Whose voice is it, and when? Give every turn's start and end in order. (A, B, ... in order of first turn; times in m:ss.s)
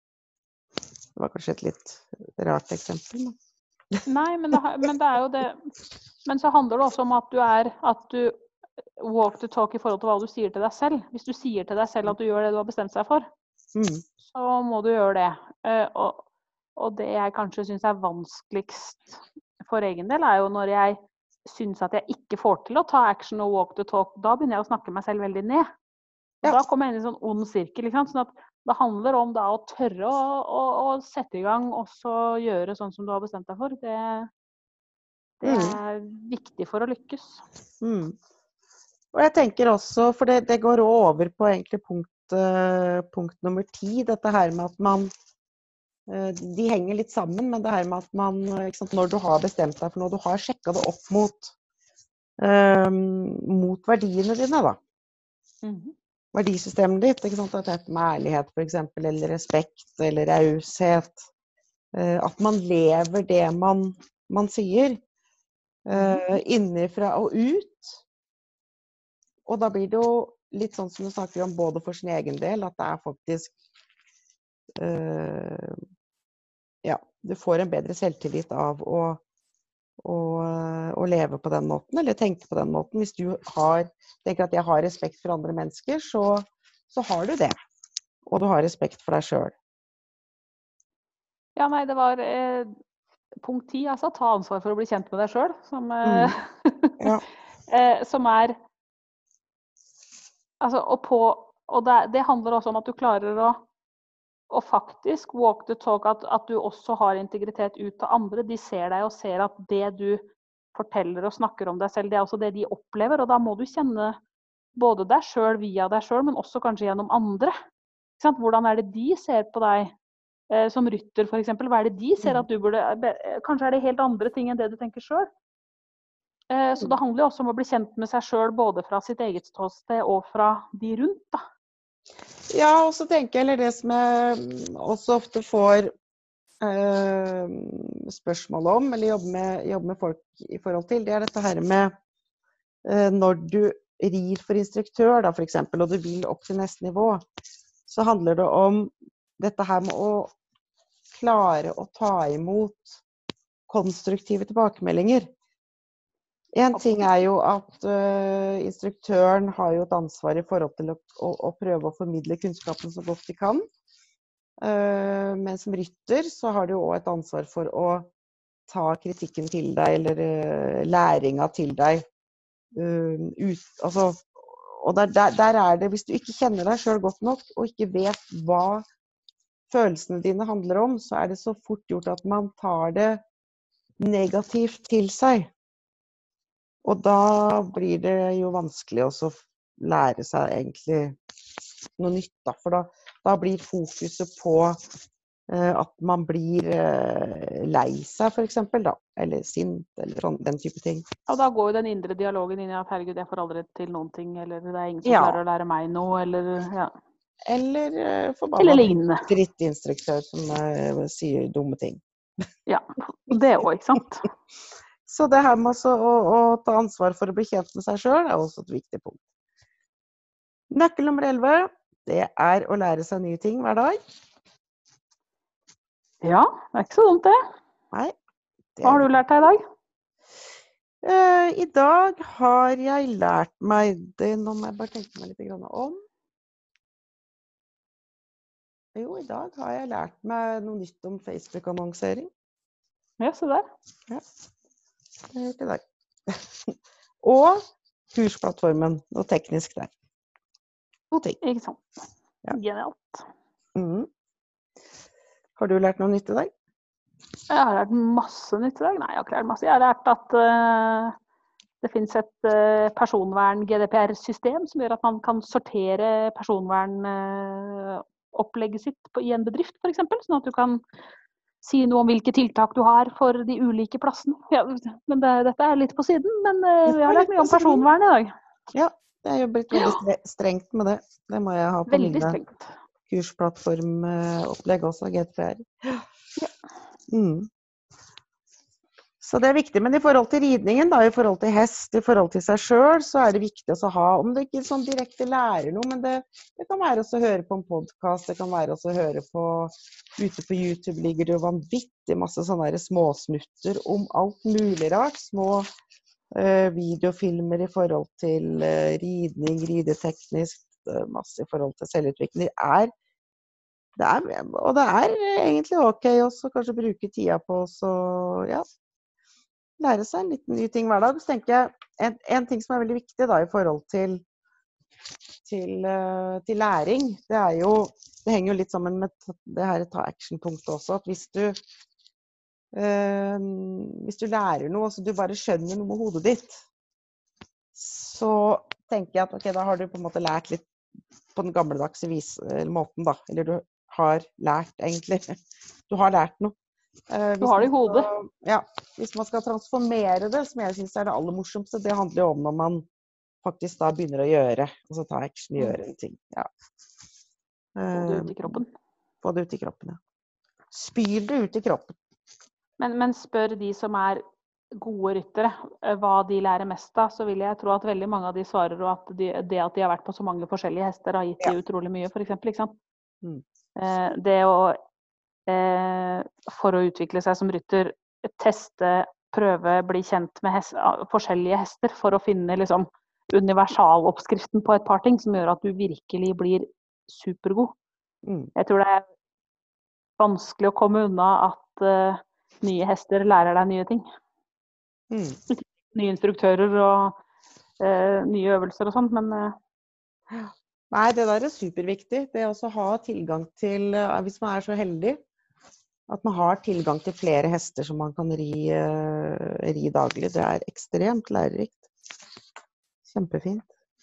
0:01.2-0:03.4 A
0:03.9-0:04.6 A
0:04.0-0:05.7 B
0:06.2-0:08.3 B
0:09.0-0:13.3 B
0:13.7-0:14.0 A
0:14.2-0:16.2 B
0:16.8-0:25.7 B
0:26.4-0:34.3 B
0:35.4-0:37.4 B
0:35.4-0:35.8 A
0:37.8-0:38.2 A
0:39.1-0:45.1 A
0:46.1-0:51.5 A
0:52.4-0:54.8 A
0:55.6-0:55.9 B
0:56.3-1:01.2 A
1:01.9-1:05.0 A
1:05.8-1:08.0 A
1:05.9-1:06.2 B
1:09.4-1:13.5 A
1:14.8-1:15.8 A
1:16.8-1:19.2 A
1:20.0-1:27.6 A
1:28.2-1:29.5 A
1:31.6-1:32.7 B
1:33.4-1:37.1 B
1:36.0-1:36.4 A
1:37.7-1:38.6 B
1:40.6-1:43.6 B
1:44.5-1:54.2 B
1:54.8-1:57.6 B
1:58.2-1:59.9 B
2:00.5-2:05.3 B
2:06.5-2:11.4 B
2:12.5-2:15.9 A
2:16.6-2:21.9 A
2:22.8-2:27.2 A
2:27.8-2:30.3 A
2:31.1-2:33.0 A
2:33.7-2:35.3 A
2:36.5-2:43.6 A
2:44.6-2:48.1 A
2:48.7-2:52.0 A
2:52.7-2:58.8 A
2:59.7-3:03.2 A
3:04.0-3:05.5 A
3:06.8-3:11.2 A
3:12.0-3:14.8 A
3:15.5-3:21.0 A
3:21.3-3:26.9 B
3:25.0-3:25.4 A
3:27.4-3:32.0 A
3:28.6-3:29.3 B
3:32.7-3:34.3 B
3:35.0-3:39.2 A
3:40.7-3:44.0 A
3:46.2-3:47.4 B
3:48.8-3:49.1 A
3:48.8-3:49.6 B
3:51.0-3:56.0 A
3:58.9-4:02.3 A
4:03.2-4:03.7 B
4:05.3-4:09.9 A
4:11.1-4:11.4 A
4:11.4-4:11.8 B
4:12.5-4:13.2 B
4:13.8-4:14.1 A
4:15.6-4:16.5 A
4:17.5-4:21.2 B
4:21.8-4:30.8 B
4:31.6-4:38.3 B
4:36.9-4:37.9 A
4:38.7-4:42.4 A
4:41.9-4:42.7 B
4:43.1-4:46.4 A
4:47.1-4:47.5 A
4:49.2-5:05.7 A
5:06.3-5:12.9 A
5:14.0-5:18.6 A
5:19.8-5:24.2 A
5:25.4-5:31.6 A
5:32.7-5:36.6 A
5:37.7-5:40.6 A
5:41.3-5:46.5 A
5:47.1-5:52.8 A
5:47.4-5:48.1 B
5:53.4-5:56.5 A
5:57.8-5:58.6 A
5:57.9-5:58.7 B
5:59.2-6:00.0 A
6:00.7-6:02.0 A
6:02.8-6:04.2 B
6:04.7-6:12.7 B
6:13.2-6:13.9 A
6:13.8-6:14.8 B
6:15.5-6:27.7 B
6:28.2-6:28.5 A
6:28.6-6:29.0 B
6:30.2-6:34.0 B
6:35.1-6:35.4 A
6:35.5-6:37.2 B
6:37.8-6:39.5 B
6:40.3-6:45.2 A
6:46.1-6:51.9 A
6:53.0-6:53.7 A